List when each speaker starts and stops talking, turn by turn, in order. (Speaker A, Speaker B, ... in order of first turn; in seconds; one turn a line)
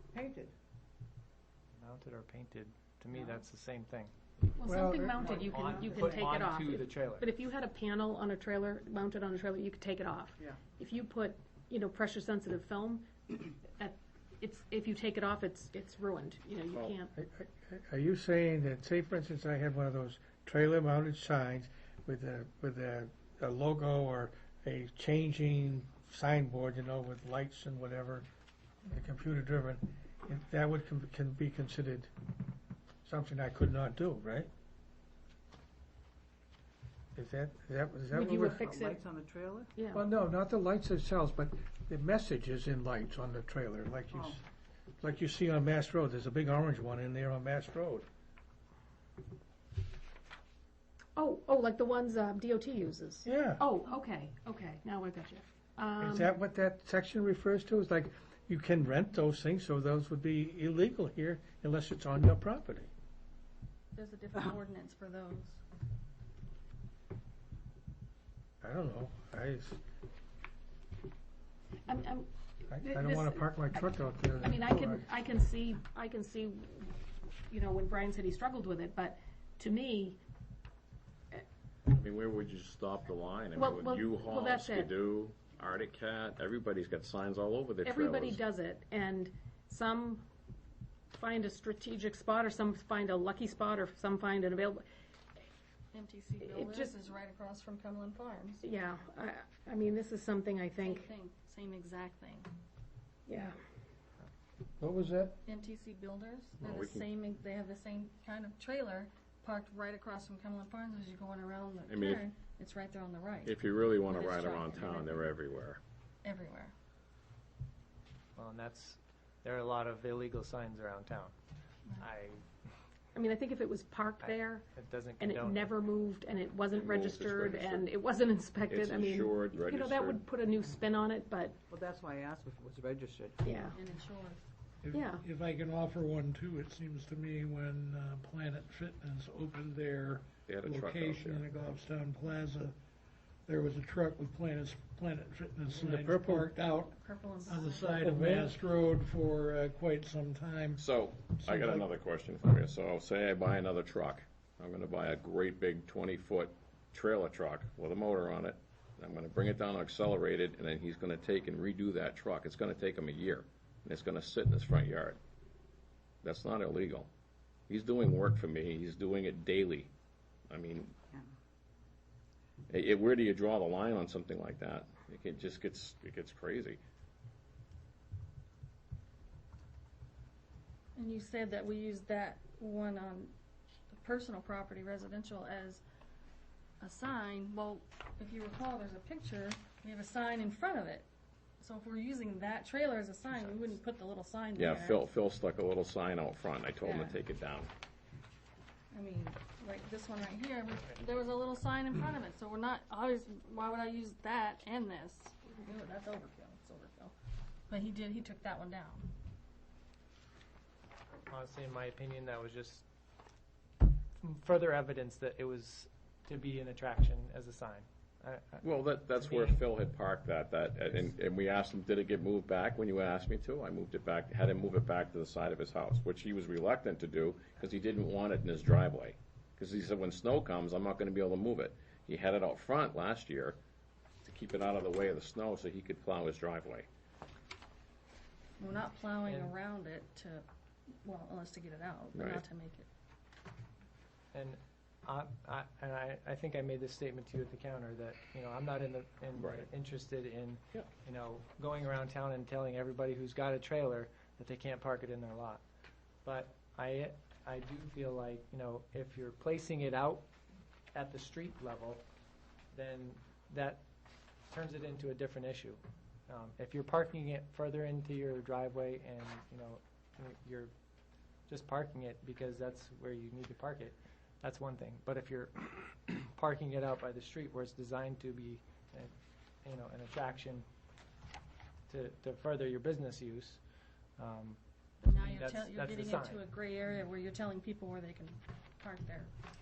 Speaker A: 0.1-0.5
Speaker B: 1.8-4.1
Speaker A: 3.1-3.4
Speaker C: 4.5-17.1
Speaker D: 4.6-5.2
Speaker A: 5.1-6.5
Speaker B: 5.4-7.3
Speaker E: 16.7-17.0
Speaker D: 17.1-28.2
Speaker D: 28.8-32.1
Speaker D: 33.0-34.5
Speaker D: 37.1-38.7
Speaker C: 38.1-39.0
Speaker A: 38.5-39.7
Speaker C: 39.8-40.0
Speaker D: 39.9-44.4
Speaker A: 44.1-44.4
Speaker D: 45.0-48.0
Speaker C: 51.1-56.3
Speaker D: 53.2-53.6
Speaker D: 56.0-62.9
Speaker F: 63.9-65.6
Speaker D: 68.6-69.8
Speaker C: 71.9-76.9
Speaker D: 72.7-75.1
Speaker C: 77.5-80.2
Speaker E: 81.9-88.4
Speaker C: 83.5-84.9
Speaker C: 87.8-90.2
Speaker C: 91.1-94.8
Speaker F: 95.9-98.6
Speaker C: 96.4-97.0
Speaker C: 98.6-101.1
Speaker F: 100.8-102.5
Speaker C: 103.3-103.5
Speaker D: 104.8-105.3
Speaker F: 105.5-115.3
Speaker E: 106.6-107.1
Speaker E: 111.9-112.2
Speaker E: 113.4-115.8
Speaker F: 116.2-116.7
Speaker B: 118.3-121.3
Speaker B: 122.0-122.4
Speaker C: 123.1-124.6
Speaker B: 124.2-125.7
Speaker C: 125.2-131.6
Speaker E: 126.7-127.9
Speaker E: 128.7-130.2
Speaker A: 131.7-133.6
Speaker C: 133.4-133.8
Speaker F: 133.7-134.5
Speaker G: 134.8-142.8
Speaker C: 134.9-135.2
Speaker E: 140.5-141.4
Speaker G: 143.5-151.9
Speaker D: 145.7-146.5
Speaker F: 146.9-148.0
Speaker D: 148.0-148.5
Speaker E: 150.8-165.2
Speaker E: 166.2-167.1
Speaker E: 167.7-169.9
Speaker E: 170.5-170.9
Speaker E: 172.7-176.8
Speaker F: 180.9-183.3
Speaker F: 183.9-185.8
Speaker F: 186.8-191.1
Speaker F: 191.6-195.0
Speaker B: 193.3-193.8
Speaker E: 194.6-197.7
Speaker F: 196.8-197.2
Speaker F: 198.9-207.1
Speaker F: 207.7-209.1
Speaker B: 211.3-212.8
Speaker B: 214.2-219.6
Speaker E: 218.6-233.6
Speaker E: 234.2-236.9
Speaker F: 238.6-240.4
Speaker B: 239.2-239.5
Speaker F: 241.0-242.9
Speaker E: 242.1-242.4
Speaker B: 244.3-255.6
Speaker E: 249.3-249.7
Speaker B: 256.2-260.3
Speaker B: 260.9-262.0
Speaker B: 262.7-263.8
Speaker B: 264.5-270.7
Speaker B: 271.5-280.6
Speaker B: 281.9-283.6
Speaker B: 284.2-286.4
Speaker F: 285.0-289.3